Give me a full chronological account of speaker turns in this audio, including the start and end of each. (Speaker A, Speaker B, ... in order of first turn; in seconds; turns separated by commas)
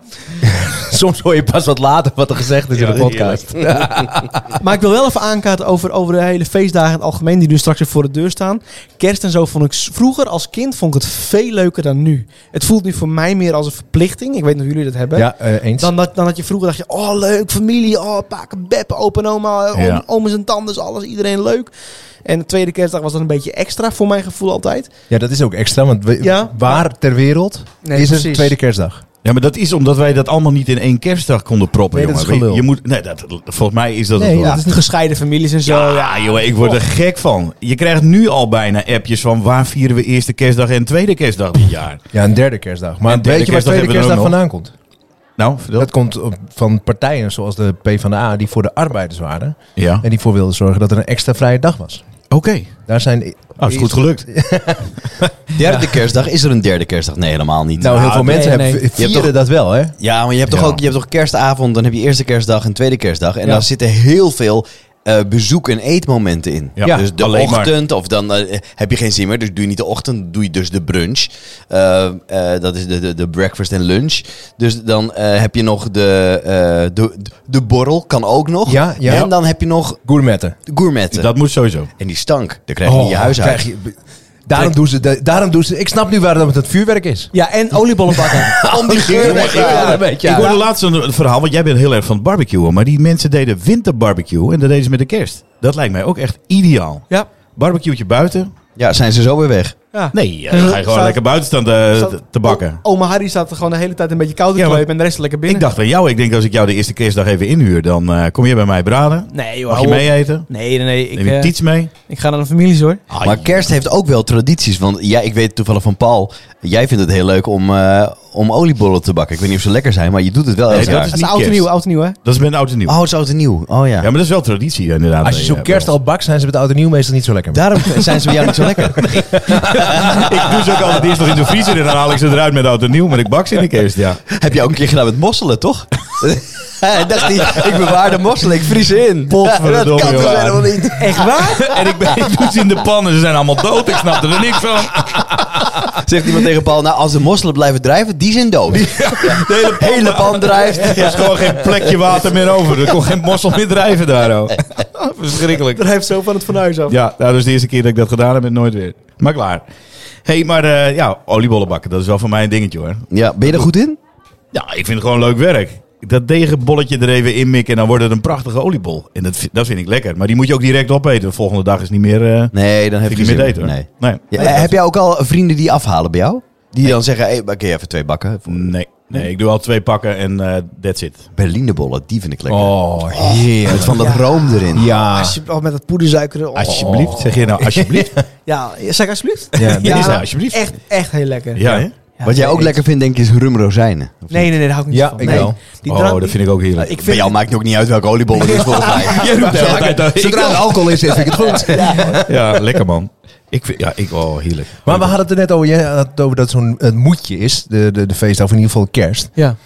Speaker A: 0.4-4.6, Speaker B: 2.7-3.5, Speaker C: 4.6-15.3, Speaker A: 15.1-15.9, Speaker C: 15.8-21.7, Speaker B: 19.7-20.0, Speaker C: 22.2-24.9, Speaker A: 25.1-29.0, Speaker C: 26.2-26.8, Speaker C: 27.8-28.5, Speaker B: 29.2-34.6, Speaker A: 31.9-32.6, Speaker A: 34.1-34.8, Speaker C: 34.5-36.8, Speaker B: 35.6-42.0, Speaker A: 42.1-44.7, Speaker B: 43.1-44.4, Speaker B: 45.4-45.9, Speaker A: 45.8-52.0, Speaker B: 49.8-50.0, Speaker B: 52.3-52.7, Speaker A: 52.9-56.0, Speaker B: 53.6-54.2, Speaker D: 55.5-59.3, Speaker A: 57.8-59.9, Speaker C: 58.2-58.8, Speaker D: 60.0-80.0, Speaker B: 60.5-60.8, Speaker B: 66.8-67.7, Speaker A: 78.7-79.3, Speaker A: 80.0-80.6, Speaker D: 80.7-81.3, Speaker B: 81.1-81.9, Speaker D: 82.0-83.7, Speaker A: 82.8-87.3, Speaker C: 87.3-90.6, Speaker A: 88.1-90.5, Speaker D: 88.6-90.0, Speaker B: 90.1-98.5, Speaker D: 98.8-99.8, Speaker C: 99.9-101.2, Speaker B: 100.1-102.8, Speaker C: 102.0-105.7, Speaker B: 104.5-104.9, Speaker B: 105.4-110.6, Speaker C: 109.3-113.0, Speaker B: 111.1-111.9, Speaker B: 113.1-113.7, Speaker D: 113.2-121.1, Speaker B: 120.7-121.7, Speaker C: 120.7-122.2, Speaker B: 122.2-122.9, Speaker D: 122.9-124.1, Speaker B: 124.0-125.9, Speaker A: 125.2-128.2, Speaker D: 127.5-130.2, Speaker A: 129.0-130.4, Speaker B: 129.1-134.2, Speaker D: 134.3-141.2, Speaker B: 139.3-145.6, Speaker C: 141.0-142.0, Speaker D: 145.9-151.2, Speaker B: 148.7-155.8, Speaker C: 150.9-151.2, Speaker C: 155.0-156.9, Speaker B: 156.9-159.6, Speaker B: 160.2-163.7, Speaker D: 163.1-164.0, Speaker B: 164.5-174.8, Speaker D: 172.5-178.7, Speaker B: 178.5-181.2, Speaker D: 181.3-184.9, Speaker A: 182.5-184.2, Speaker C: 184.0-187.4, Speaker A: 184.7-185.4, Speaker B: 186.6-188.1, Speaker A: 186.8-188.1, Speaker C: 188.4-192.7, Speaker A: 189.5-190.2, Speaker B: 189.8-190.7, Speaker B: 191.5-191.9, Speaker D: 192.2-194.5, Speaker C: 194.3-197.3, Speaker A: 194.9-195.6, Speaker B: 195.2-196.9, Speaker D: 197.0-200.2, Speaker C: 198.3-200.1, Speaker A: 199.2-202.8, Speaker B: 199.2-200.8, Speaker C: 201.2-202.2, Speaker B: 202.1-205.1, Speaker A: 204.8-209.3